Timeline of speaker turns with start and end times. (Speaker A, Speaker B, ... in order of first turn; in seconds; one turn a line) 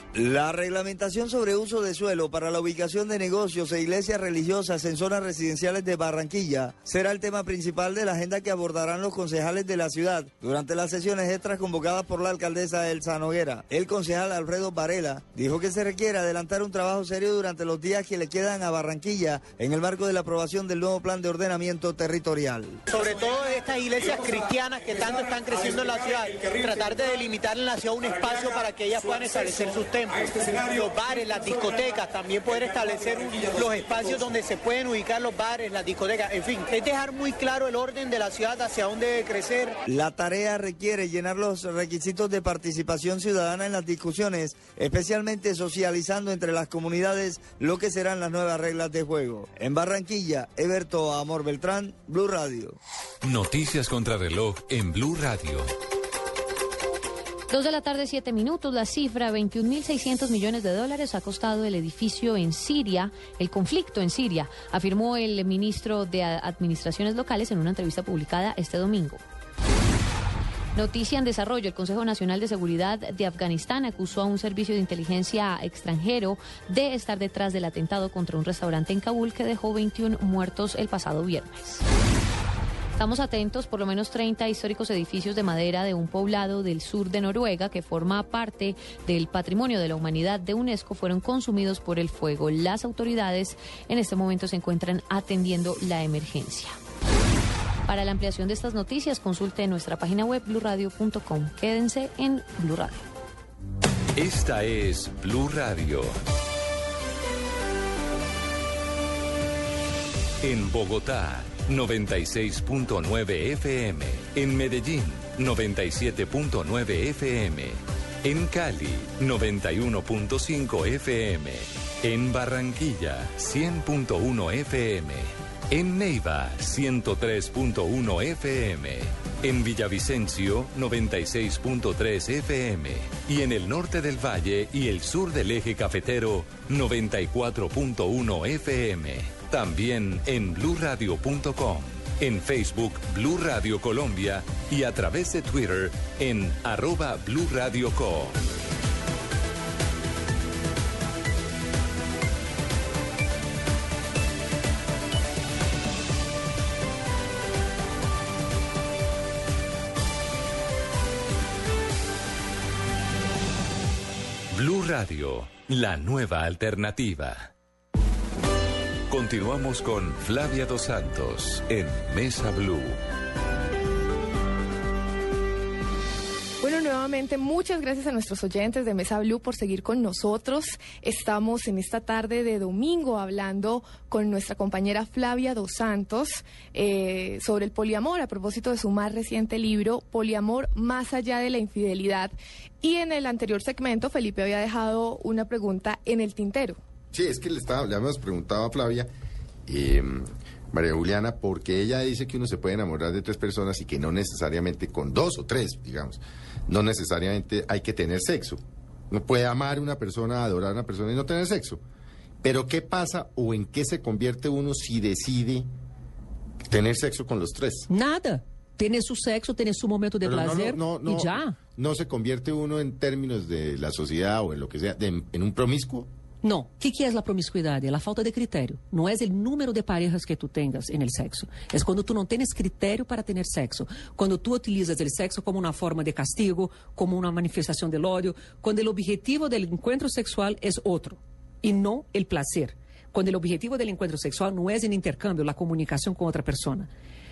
Speaker A: 0.1-22.8
Speaker B: 22.9-39.8
Speaker A: 39.8-52.8
Speaker C: 53.2-55.7
Speaker D: 57.5-69.2
Speaker D: 70.7-81.8
Speaker D: 83.0-96.7
Speaker D: 97.8-103.0
Speaker C: 104.2-106.1
Speaker C: 110.4-148.4
Speaker C: 164.5-167.5
Speaker C: 169.1-173.0
Speaker E: 176.6-196.8
Speaker F: 197.1-199.1
Speaker F: 199.7-211.8
Speaker F: 212.4-215.7
Speaker F: 216.7-217.9
Speaker G: 217.9-221.6
Speaker F: 220.2-226.1
Speaker G: 226.4-246.9